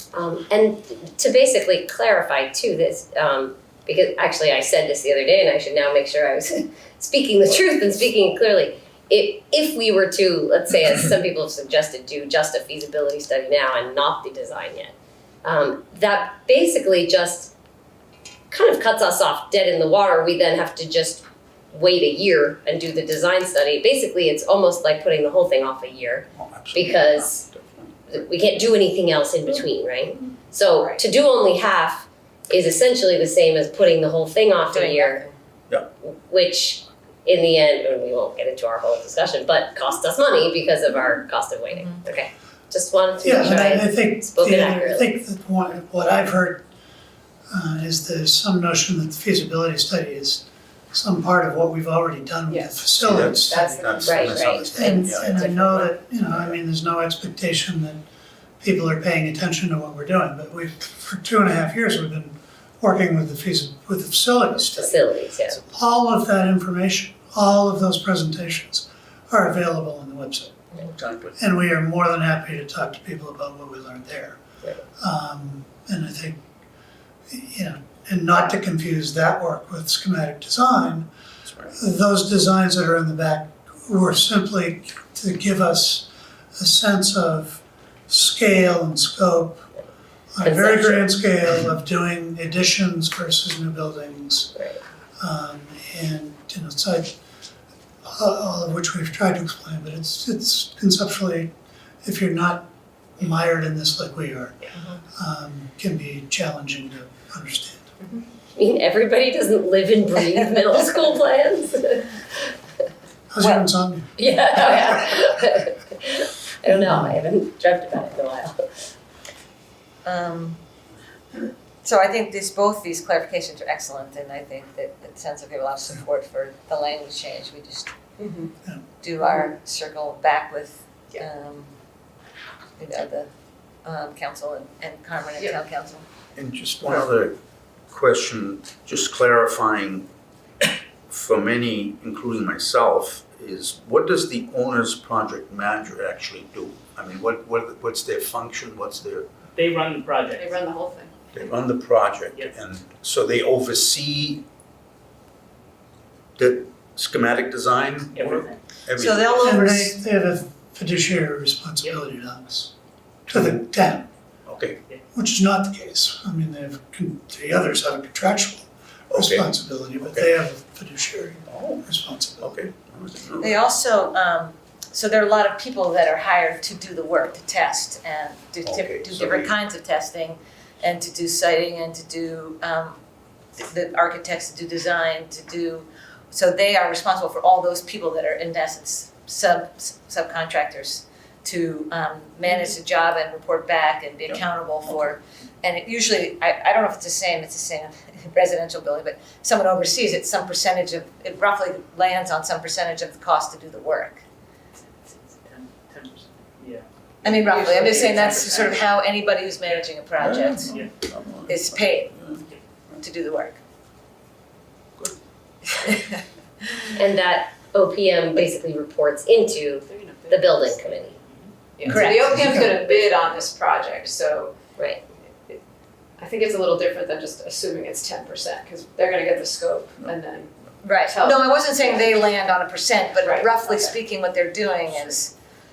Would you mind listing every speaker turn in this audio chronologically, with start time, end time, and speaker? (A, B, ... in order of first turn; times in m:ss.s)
0:00.1-0:17.5 A
0:18.5-0:27.4 A
0:26.3-0:28.0 B
0:28.1-0:35.2 A
0:30.8-0:31.0 C
0:34.7-0:35.3 D
0:36.0-0:45.1 A
0:43.2-0:46.6 E
0:47.5-0:58.0 E
0:52.5-0:55.0 C
0:53.0-0:55.4 B
0:54.1-0:55.8 A
0:58.6-1:10.6 E
1:04.7-1:05.6 A
1:10.9-1:11.4 B
1:11.4-1:14.4 E
1:15.0-1:16.4 E
1:17.3-1:21.1 E
1:21.5-1:21.7 B
1:21.7-1:29.7 E
1:30.3-1:34.6 E
1:30.4-1:31.1 A
1:34.5-1:34.8 A
1:35.2-1:37.2 E
1:38.0-1:41.5 E
1:42.0-1:47.9 E
1:48.5-1:52.5 A
1:53.3-1:54.1 E
1:53.4-1:53.7 D
1:54.2-1:58.9 A
2:00.0-2:00.6 D
2:01.8-2:07.9 D
2:08.2-2:08.5 C
2:09.0-2:11.7 D
2:09.2-2:09.5 C
2:12.8-2:13.3 D
2:13.8-2:16.0 D
2:16.3-2:17.4 B
2:17.9-2:20.0 B
2:21.1-2:29.3 B
2:29.5-2:30.6 F
2:30.4-2:31.3 C
2:31.3-2:34.4 B
2:36.4-2:39.6 B
2:38.1-2:38.6 F
2:39.0-2:40.0 D
2:39.4-2:42.7 E
2:43.3-2:44.1 E
2:44.4-2:44.8 B
2:45.1-2:52.6 E
2:49.1-2:50.3 B
2:51.5-2:51.8 B
2:52.4-2:53.7 B
2:53.4-3:03.0 D
2:58.6-2:59.5 B
3:03.6-3:24.2 D
3:25.1-3:29.0 F
3:27.2-3:30.7 D
3:27.4-3:28.5 C
3:29.5-3:29.8 F
3:30.2-3:32.4 B
3:31.5-3:32.2 D
3:33.0-3:33.6 D
3:36.9-3:41.2 A
3:39.9-3:41.0 C
3:41.2-3:41.5 F
3:41.8-3:44.6 C
3:41.9-3:42.3 D
3:41.9-3:42.5 B
3:46.2-3:52.2 C
3:50.8-3:55.3 D
3:53.1-3:54.0 C